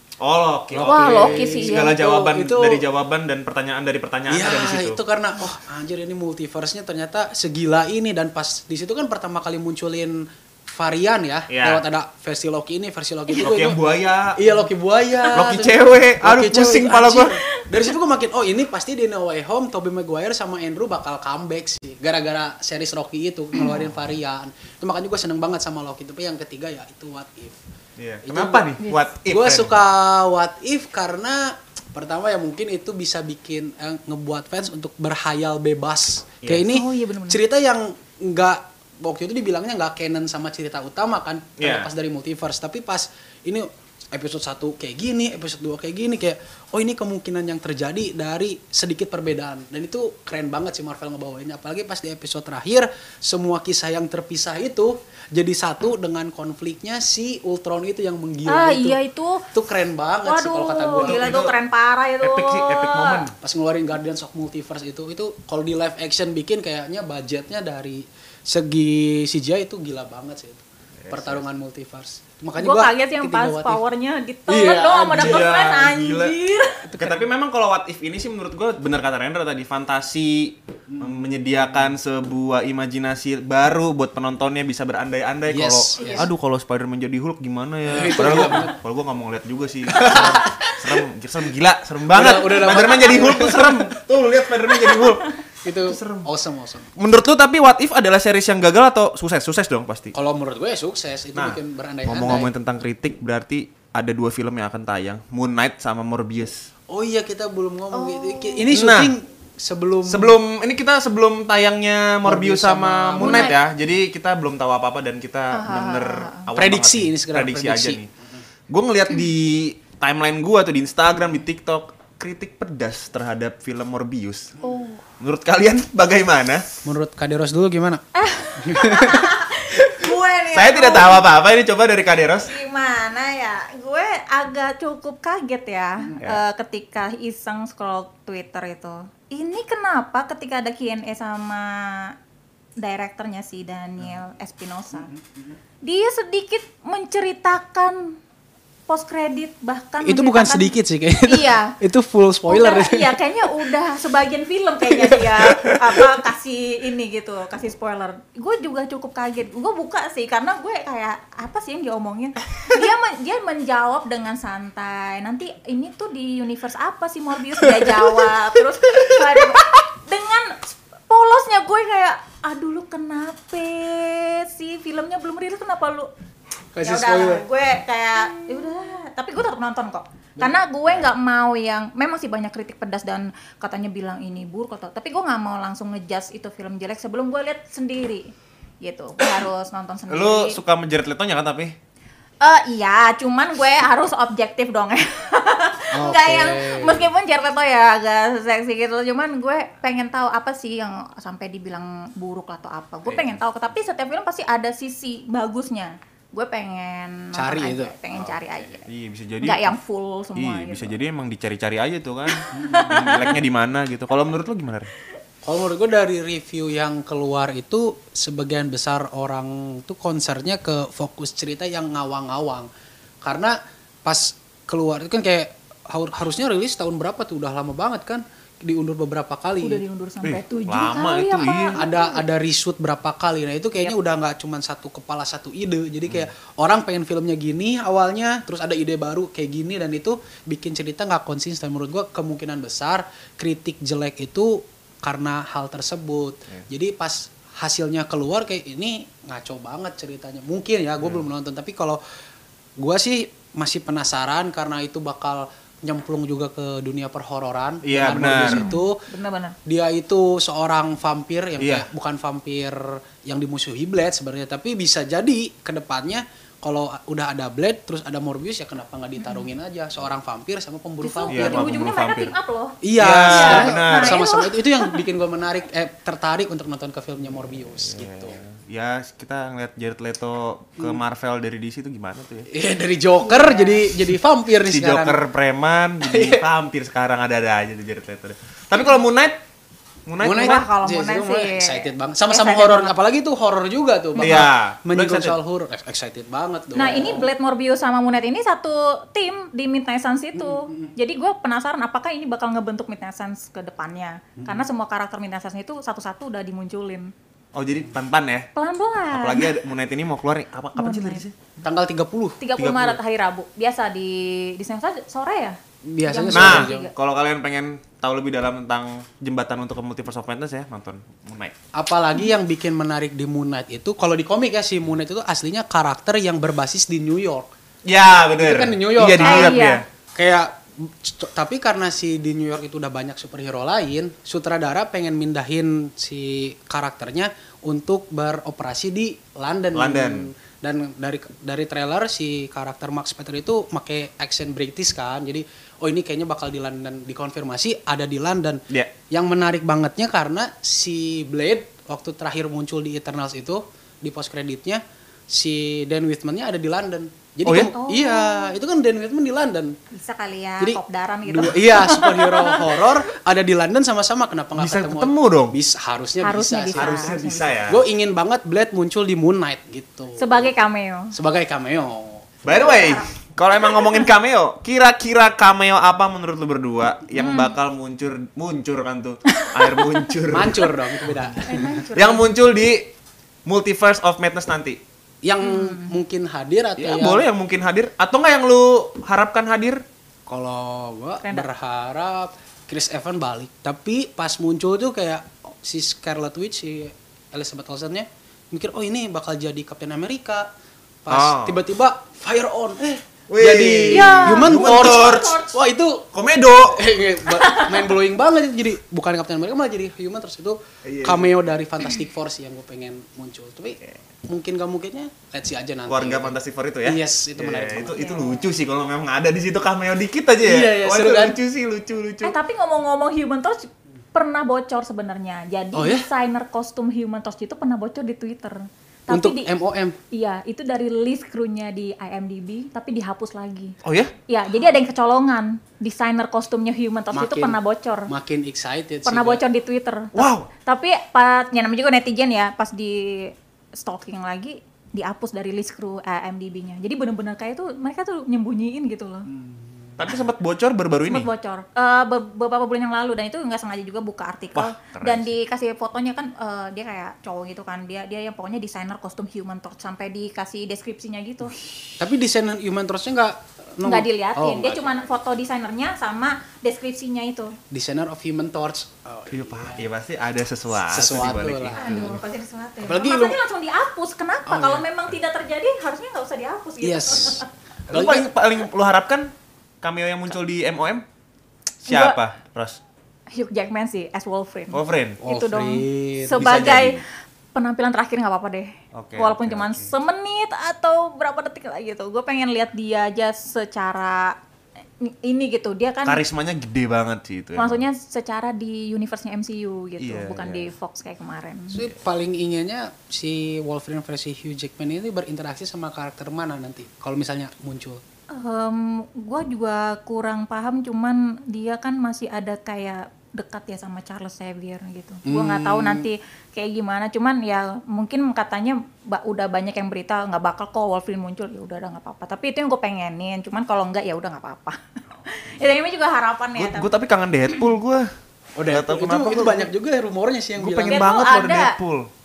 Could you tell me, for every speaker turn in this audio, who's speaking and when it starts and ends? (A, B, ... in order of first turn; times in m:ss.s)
0:00.2-0:05.0 A
0:00.7-0:02.8 B
0:00.8-0:02.0 C
0:04.3-0:27.6 B
0:11.5-0:11.8 A
0:13.4-0:14.4 A
0:15.3-0:17.4 A
0:23.5-0:23.8 C
0:28.0-0:29.8 A
0:28.2-0:59.0 B
0:36.4-0:36.7 A
0:36.7-0:37.4 C
0:41.6-0:41.9 A
0:58.4-0:59.5 C
0:59.5-1:01.3 B
1:00.2-1:03.2 C
1:01.0-1:01.5 A
1:02.2-1:03.3 A
1:03.4-1:13.8 B
1:11.0-1:11.4 A
1:12.6-1:16.8 C
1:14.5-1:15.5 B
1:15.1-1:16.4 A
1:16.8-1:17.3 B
1:17.0-1:36.3 A
1:20.9-1:21.4 B
1:25.5-1:26.3 B
1:26.0-1:26.3 C
1:27.8-1:28.8 B
1:29.9-1:31.0 B
1:32.1-1:33.9 B
1:35.0-1:35.2 C
1:35.6-1:36.9 B
1:37.0-1:40.1 A
1:40.1-1:42.5 B
1:41.3-1:46.7 A
1:46.9-1:50.4 B
1:47.9-1:48.7 C
1:48.7-1:49.1 A
1:50.0-1:58.1 A
1:52.2-1:53.6 B
1:53.2-1:53.6 C
1:55.5-1:56.4 C
1:56.5-1:58.0 B
1:58.7-2:04.5 A
2:04.6-2:05.0 C
2:05.2-2:06.6 A
2:06.8-2:08.0 B
2:08.1-2:11.2 C
2:08.6-2:09.4 B
2:10.5-2:12.5 A
2:12.4-2:22.1 C
2:22.8-2:25.1 C
2:25.1-2:25.4 B
2:25.8-2:28.2 C
2:28.9-2:31.8 C
2:30.0-2:33.7 B
2:32.5-2:56.1 C
2:34.9-2:36.0 B
2:56.7-2:57.4 B
2:56.8-3:10.6 C
3:10.1-3:11.7 A
3:12.4-3:28.9 C
3:15.9-3:17.1 B
3:23.1-3:23.3 A
3:27.3-3:28.3 B
3:28.9-3:29.7 A
3:29.4-3:30.9 C
3:30.4-3:34.9 A
3:32.3-3:33.3 C
3:32.5-3:32.9 B
3:35.4-3:42.7 B
3:43.2-3:49.8 B
3:49.6-3:52.2 C
3:50.2-3:51.8 A
3:51.7-4:12.0 B
4:12.8-4:19.0 B
4:17.8-4:18.7 A
4:18.5-4:19.6 C
4:19.6-4:31.8 B
4:21.6-4:21.8 A
4:29.2-4:29.5 C
4:31.0-4:35.0 C
4:31.3-4:32.3 A
4:32.8-4:38.4 B
4:33.0-4:34.2 A
4:37.8-4:42.5 A
4:42.5-4:45.2 B
4:43.2-4:43.8 C
4:44.6-4:49.4 A
4:46.0-4:46.4 B
4:50.0-4:50.6 A
4:50.2-4:57.3 B
4:50.3-4:52.9 C
4:54.2-4:54.5 C
4:54.2-4:55.4 A
4:56.7-5:07.1 C
5:00.3-5:00.9 B
5:04.4-5:04.6 B
5:07.5-5:08.5 A
5:08.6-5:09.5 C
5:09.1-5:11.3 A
5:10.8-5:11.2 C
5:11.6-5:12.4 B
5:12.4-5:16.9 C
5:12.6-5:13.0 A
5:15.8-5:16.9 B
5:16.3-5:21.6 A
5:21.7-5:27.5 B
5:27.8-5:29.8 A
5:28.4-5:59.8 B
5:29.2-5:29.8 C
5:39.7-5:40.3 A
5:57.4-5:57.7 A
5:57.6-5:58.5 C
5:59.9-6:02.9 C
6:00.6-6:10.5 B
6:04.6-6:05.6 A
6:06.2-6:07.6 C
6:06.7-6:07.8 A
6:10.2-6:11.1 C
6:11.1-6:12.3 B
6:12.4-6:20.7 A
6:12.5-6:13.1 C
6:13.6-6:14.0 C
6:17.2-6:17.5 C
6:19.3-6:20.0 C
6:20.3-6:21.8 B
6:21.4-6:22.3 C
6:21.9-6:22.9 A
6:23.4-6:24.8 A
6:25.2-6:27.2 B
6:25.4-6:25.9 C
6:26.8-6:29.8 A
6:30.3-6:40.5 B
6:31.2-6:31.5 C
6:41.0-6:46.1 B
6:41.1-6:41.6 A
6:43.3-6:45.4 A
6:43.9-6:45.6 C
6:46.1-6:46.8 A
6:46.7-6:58.0 B
6:47.3-6:47.9 C
6:50.8-6:51.3 A
6:55.9-7:02.3 A
6:57.8-6:58.4 C
7:00.4-7:01.4 B
7:02.2-7:09.5 C
7:05.7-7:06.1 B
7:09.1-7:10.0 B
7:10.1-7:13.8 C
7:13.8-7:14.1 A
7:14.3-7:18.1 C
7:17.1-7:19.4 B
7:19.0-7:29.3 C
7:20.1-7:20.5 A
7:29.3-7:30.0 B
7:30.0-7:31.3 A
7:31.1-7:41.6 C
7:34.5-7:35.3 A
7:42.0-7:44.9 B
7:43.8-7:47.6 C
7:47.7-7:49.8 B
7:49.3-7:52.2 A
7:50.9-7:52.2 B
7:51.8-7:57.5 C
7:52.8-7:53.4 B
7:54.5-7:54.8 B
7:56.8-7:58.3 B
7:57.9-8:01.0 A
8:01.8-8:02.2 C
8:01.8-8:02.8 A
8:03.3-8:07.0 C
8:04.7-8:05.2 A
8:05.2-8:06.5 B
8:06.4-8:07.0 A
8:07.5-8:14.4 C
8:08.9-8:09.9 A
8:15.0-8:16.2 C
8:16.0-8:17.8 A
8:17.6-8:21.8 C
8:20.0-8:20.7 A
8:21.7-8:28.0 B
8:28.3-8:46.9 C
8:35.2-8:36.1 B
8:46.6-8:48.1 A
8:48.6-8:51.1 B
8:48.7-8:49.7 A
8:50.6-8:52.1 A
8:50.9-8:51.7 C